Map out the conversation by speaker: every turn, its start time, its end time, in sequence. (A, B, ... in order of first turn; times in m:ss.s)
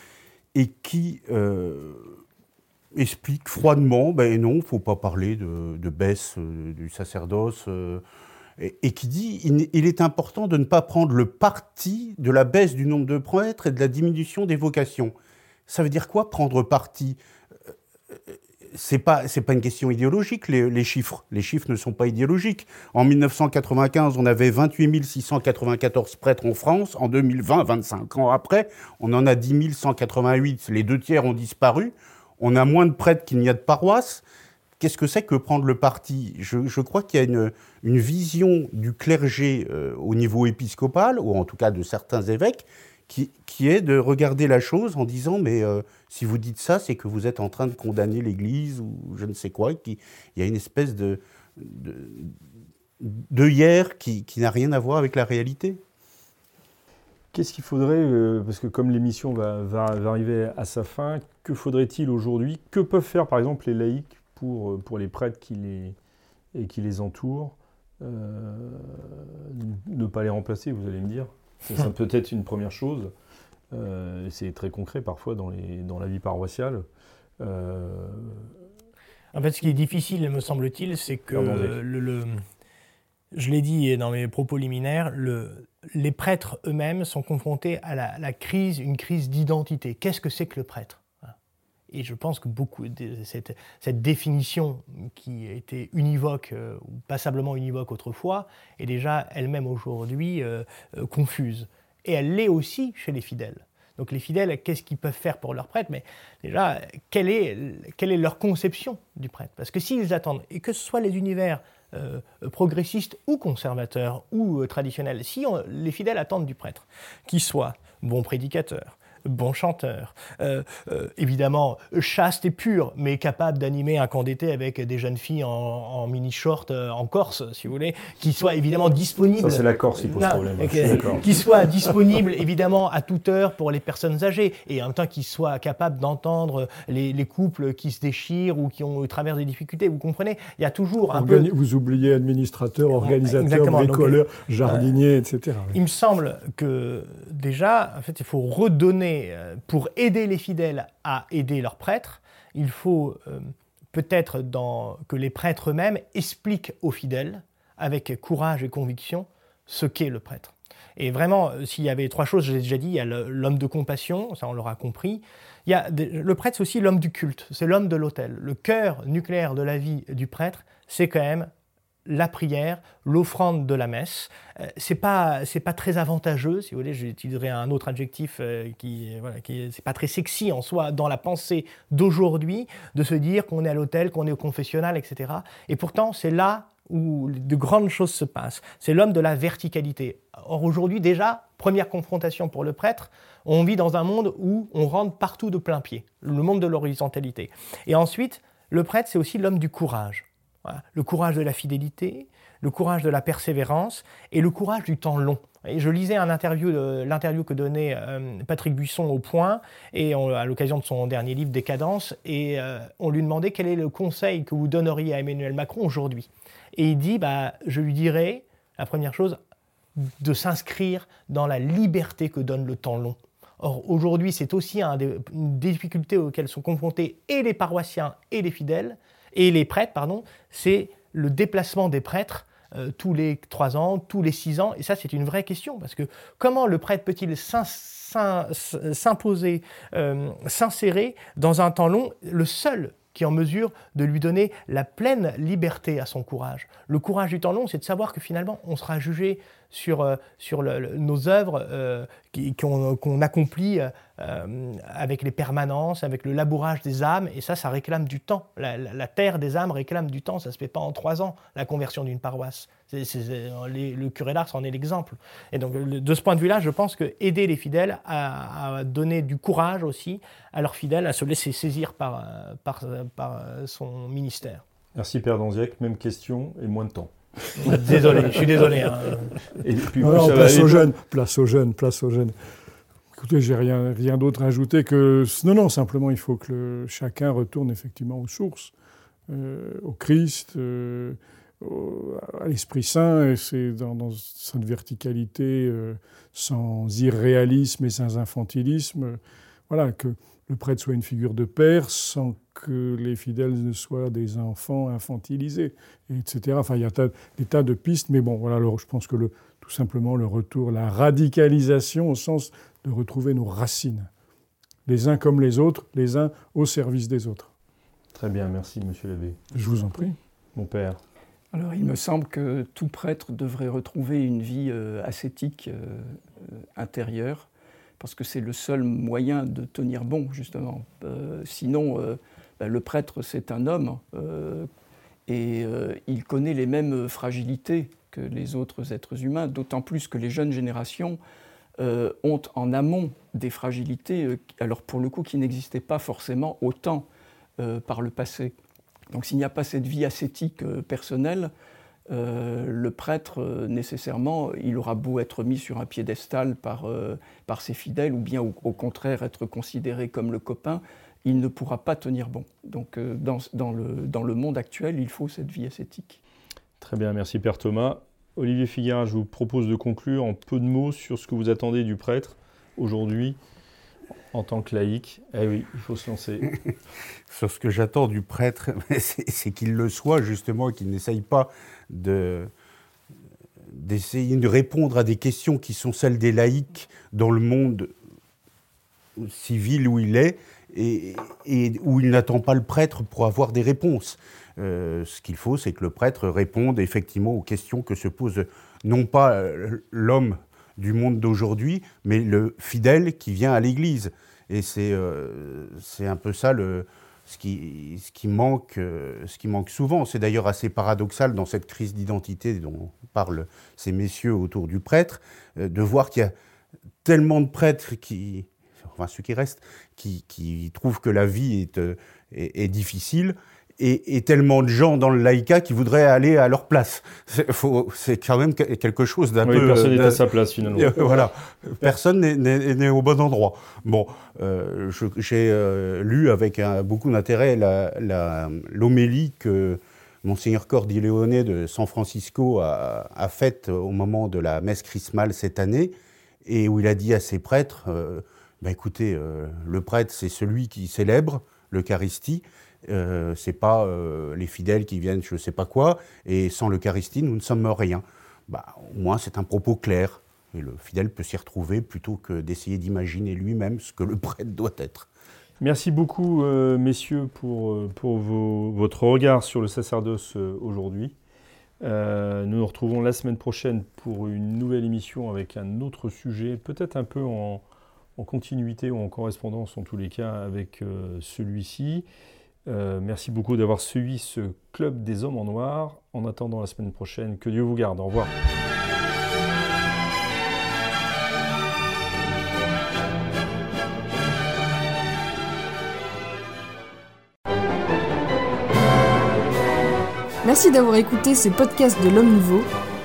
0:00.5-0:02.2 A
0:03.0-0:08.0 A
0:08.6-0:15.1 A
0:15.7-0:17.2 A
0:18.7-0:34.2 A
0:34.8-0:52.4 A
0:53.0-0:55.8 A
0:57.3-1:06.0 B
1:06.5-1:13.1 B
1:13.7-1:16.8 B
1:17.4-1:18.6 B
1:19.3-1:22.4 C
1:21.3-1:21.8 B
1:23.3-1:31.3 C
1:31.9-2:21.5 C
2:09.4-2:11.3 B
2:21.1-2:25.8 D
2:23.0-2:24.9 C
2:25.7-2:51.5 C
2:52.1-3:39.4 C
3:40.0-4:34.6 C
4:35.0-4:38.3 B
4:37.6-4:39.4 C
4:39.6-4:40.9 B
4:40.0-4:42.4 D
4:43.2-4:48.7 D
4:49.3-5:14.1 D
5:14.9-5:17.5 D
5:18.1-5:19.4 B
5:19.5-5:20.2 D
5:20.6-5:21.0 B
5:21.5-5:27.5 E
5:28.0-5:34.7 E
5:35.3-5:41.2 E
5:41.8-5:47.1 E
5:47.6-5:48.5 E
5:49.1-5:51.5 E
5:52.1-6:06.2 E
6:06.8-6:13.4 B
6:14.3-6:16.5 B
6:17.3-6:22.5 A
6:23.7-6:27.9 A
6:29.2-6:56.3 A
6:57.0-7:25.9 A
7:09.4-7:11.0 B
7:26.4-7:45.1 A
7:45.6-7:51.1 B
7:51.8-7:57.6 B
7:58.2-8:02.0 B
8:02.7-8:08.3 B
8:20.4-8:22.7 F